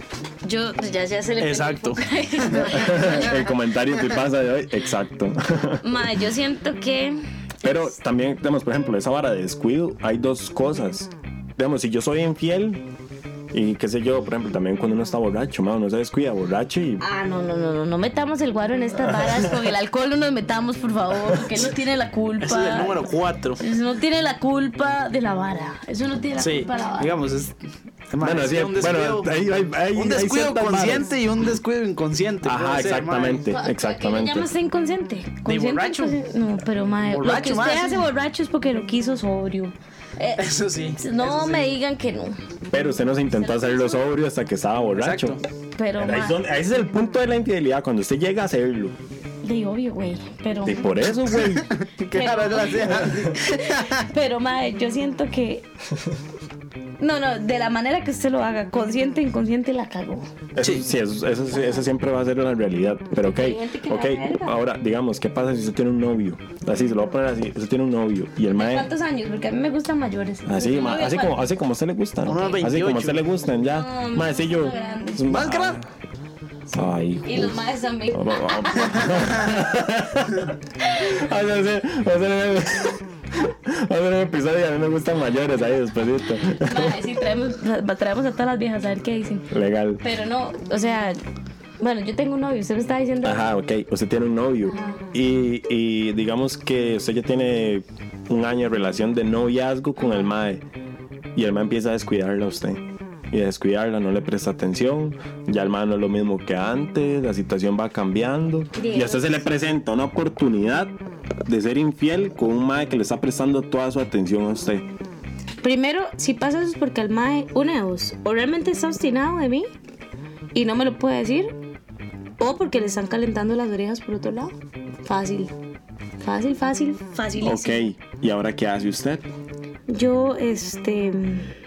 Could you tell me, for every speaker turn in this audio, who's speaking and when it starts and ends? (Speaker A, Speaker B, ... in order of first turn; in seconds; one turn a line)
Speaker A: 0.4-3.4
Speaker B: 1.4-3.4
Speaker C: 2.7-6.0
Speaker A: 5.8-7.2
Speaker C: 7.6-12.8
Speaker C: 13.5-17.0
Speaker A: 17.0-23.1
Speaker C: 19.0-19.6
Speaker B: 22.4-23.6
Speaker A: 23.6-27.1
Speaker B: 26.4-27.6
Speaker B: 28.1-29.3
Speaker C: 28.2-31.1
Speaker B: 29.9-33.4
Speaker C: 32.4-34.5
Speaker A: 33.5-40.5
Speaker B: 35.5-36.2
Speaker B: 37.0-38.1
Speaker B: 40.4-41.7
Speaker A: 41.0-42.4
Speaker C: 42.7-45.4
Speaker A: 43.4-44.0
Speaker B: 44.9-45.4
Speaker A: 45.8-46.4
Speaker C: 46.0-49.0
Speaker A: 49.4-50.9
Speaker C: 50.6-51.7
Speaker B: 51.3-54.0
Speaker A: 52.1-55.6
Speaker A: 57.0-60.3
Speaker C: 60.5-68.9
Speaker A: 63.2-64.6
Speaker A: 68.5-71.4
Speaker C: 70.5-75.9
Speaker B: 72.2-73.2
Speaker A: 73.7-75.4
Speaker B: 75.3-75.8
Speaker C: 76.7-87.0
Speaker A: 77.2-79.5
Speaker A: 80.8-81.1
Speaker A: 86.5-89.5
Speaker C: 89.5-90.0
Speaker A: 90.0-91.2
Speaker A: 91.8-93.5
Speaker C: 93.2-100.6
Speaker A: 94.7-95.0
Speaker A: 100.0-100.3
Speaker C: 101.3-110.9
Speaker A: 108.8-109.4
Speaker C: 111.5-114.9
Speaker A: 115.6-119.7
Speaker A: 120.5-121.5
Speaker A: 122.4-124.5
Speaker A: 125.0-125.5
Speaker A: 126.2-127.8
Speaker C: 127.4-129.2
Speaker A: 129.9-131.5